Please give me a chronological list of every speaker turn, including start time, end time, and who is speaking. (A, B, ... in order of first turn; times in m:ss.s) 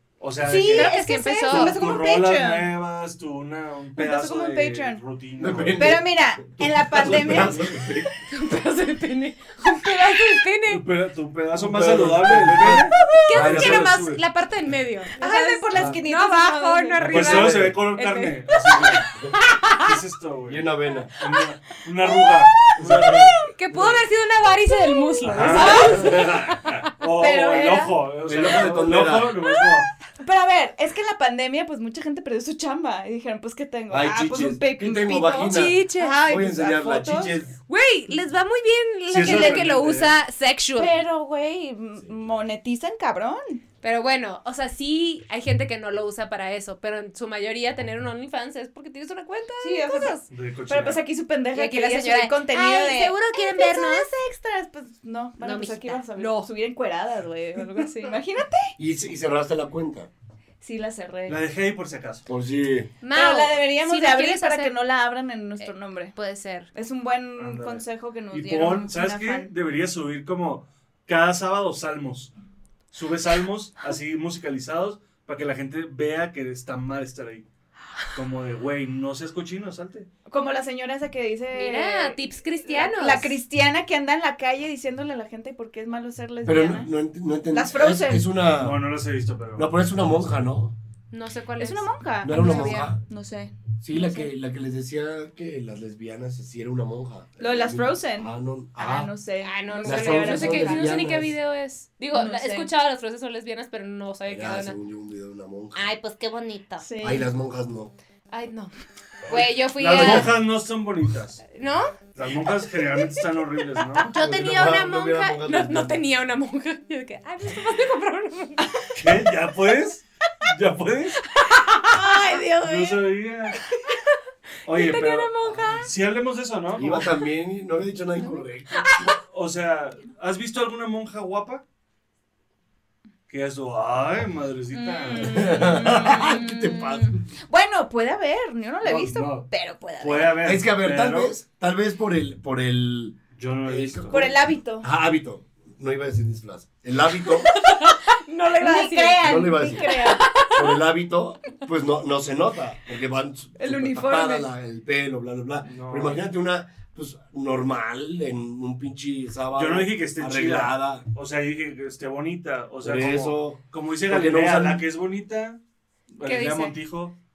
0:00.2-0:06.0 A
0:00.4-0:02.7 B
0:00.7-0:01.8 C
0:04.0-0:05.0 B
0:05.4-0:08.1 D
0:05.8-0:07.6 B
0:07.1-0:07.5 A
0:08.2-0:10.8 C
0:10.6-0:14.2 A
0:11.5-0:14.0 D
0:13.2-0:20.0 C
0:15.2-0:17.1 B
0:15.7-0:16.0 D
0:17.0-0:17.8 D
0:17.0-0:19.1 A
0:19.7-0:24.0 A
0:20.5-0:21.1 D
0:22.8-0:23.3 D
0:23.4-0:26.9 C
0:25.2-0:29.9 A
0:25.4-0:26.6 D
0:25.4-0:26.2 B
0:27.1-0:28.0 B
0:28.2-0:29.4 D
0:30.2-0:37.4 B
0:33.9-0:37.6 D
0:35.4-0:36.2 C
0:37.7-0:41.0 C
0:39.1-0:40.1 A
0:39.2-0:39.6 D
0:39.3-0:39.6 B
0:40.7-0:43.6 B
0:42.0-0:42.3 D
0:43.8-0:50.2 C
0:49.6-0:58.7 B
0:50.3-0:51.0 A
0:51.5-0:54.1 C
0:55.4-0:56.5 C
0:57.8-0:58.0 C
0:58.8-1:00.1 D
1:00.6-1:01.4 B
1:01.3-1:02.3 A
1:02.2-1:02.9 D
1:03.0-1:04.7 C
1:03.1-1:06.1 B
1:05.6-1:06.7 C
1:06.7-1:09.5 B
1:07.4-1:12.3 A
1:12.9-1:17.4 A
1:18.1-1:20.1 A
1:20.3-1:26.9 B
1:21.5-1:23.4 C
1:26.4-1:28.9 D
1:27.5-1:28.2 B
1:28.5-1:30.2 A
1:29.6-1:30.8 D
1:31.1-1:32.9 C
1:31.6-1:34.3 B
1:32.2-1:33.0 D
1:33.8-1:39.1 D
1:37.4-1:41.2 B
1:39.4-1:44.8 C
1:39.8-1:41.3 D
1:42.1-1:42.7 B
1:44.3-1:45.9 D
1:45.7-1:46.9 C
1:46.8-1:47.3 B
1:47.0-1:47.9 D
1:48.3-1:48.7 C
1:49.3-1:50.4 C
1:49.3-1:51.4 A
1:51.5-1:52.0 C
1:52.1-1:54.1 A
1:54.1-1:56.0 D
1:54.1-1:58.7 C
1:58.9-2:01.2 A
2:01.2-2:03.0 C
2:01.9-2:02.7 B
2:02.6-2:03.6 A
2:03.9-2:05.9 C
2:04.6-2:07.2 A
2:06.8-2:09.1 D
2:08.3-2:09.1 C
2:09.2-2:11.6 A
2:13.3-2:16.4 A
2:14.7-2:20.4 B
2:15.3-2:17.2 D
2:18.8-2:19.5 A
2:20.0-2:21.3 A
2:20.4-2:27.5 D
2:23.3-2:24.3 A
2:24.1-2:24.9 B
2:27.2-2:30.7 C
2:28.5-2:30.3 B
2:29.2-2:29.9 D
2:30.5-2:41.0 D
2:33.6-2:34.5 B
2:35.6-2:36.2 A
2:39.5-2:45.6 A
2:42.8-2:44.8 D
2:46.1-2:47.2 A
2:46.2-2:46.7 C